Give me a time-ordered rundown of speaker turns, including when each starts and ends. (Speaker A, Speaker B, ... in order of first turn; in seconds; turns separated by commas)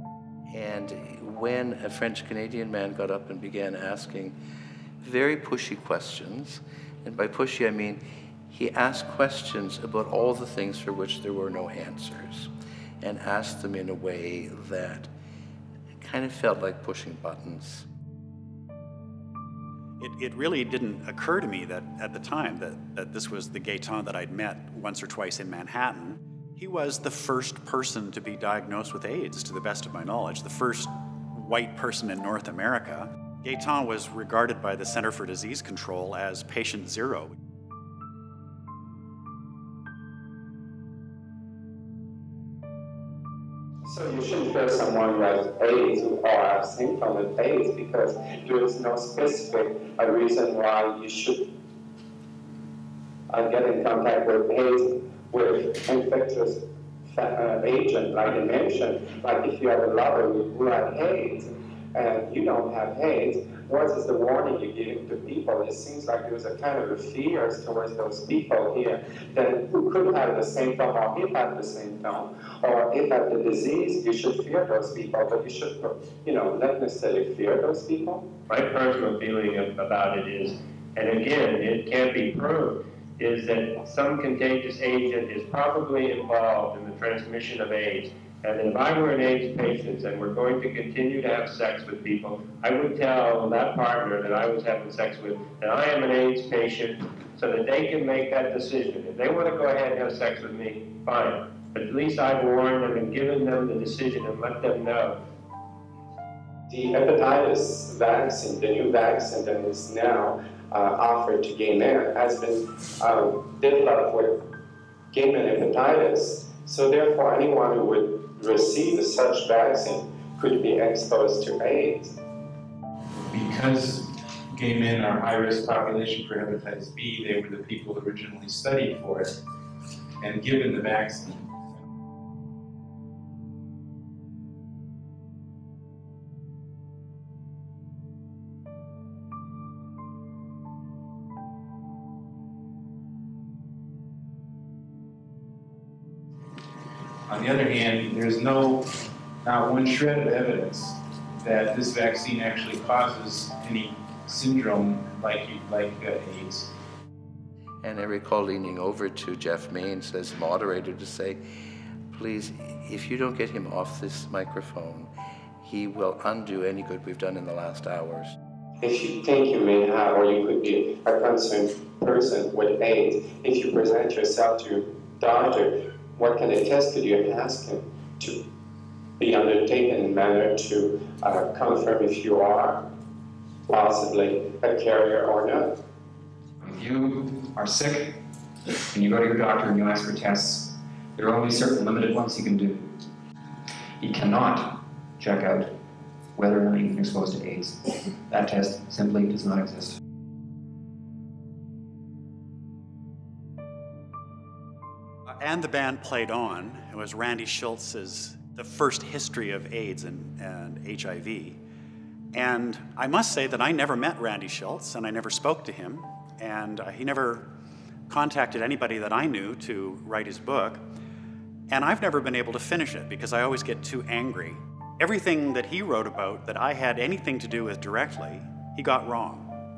Speaker A: 0.5-4.4, Speaker A: 5.0-12.5, Speaker A: 13.0-15.1, Speaker A: 16.0-17.9, Speaker B: 20.0-37.4, Speaker C: 43.9-51.5, Speaker C: 53.3-78.3, Speaker D: 78.5-105.2, Speaker C: 106.7-114.4, Speaker C: 115.1-122.1, Speaker E: 123.3-129.4, Speaker E: 130.2-131.5, Speaker E: 147.3-148.9, Speaker E: 149.4-156.7, Speaker A: 157.8-161.4, Speaker A: 162.1-168.3, Speaker C: 168.8-178.4, Speaker C: 179.2-182.8, Speaker C: 183.7-185.7, Speaker F: 186.6-188.2, Speaker F: 188.9-192.9, Speaker F: 194.0-195.7, Speaker F: 196.4-197.8, Speaker F: 198.3-199.9, Speaker B: 205.3-211.6, Speaker B: 212.3-217.5, Speaker B: 218.1-220.8, Speaker B: 221.7-229.5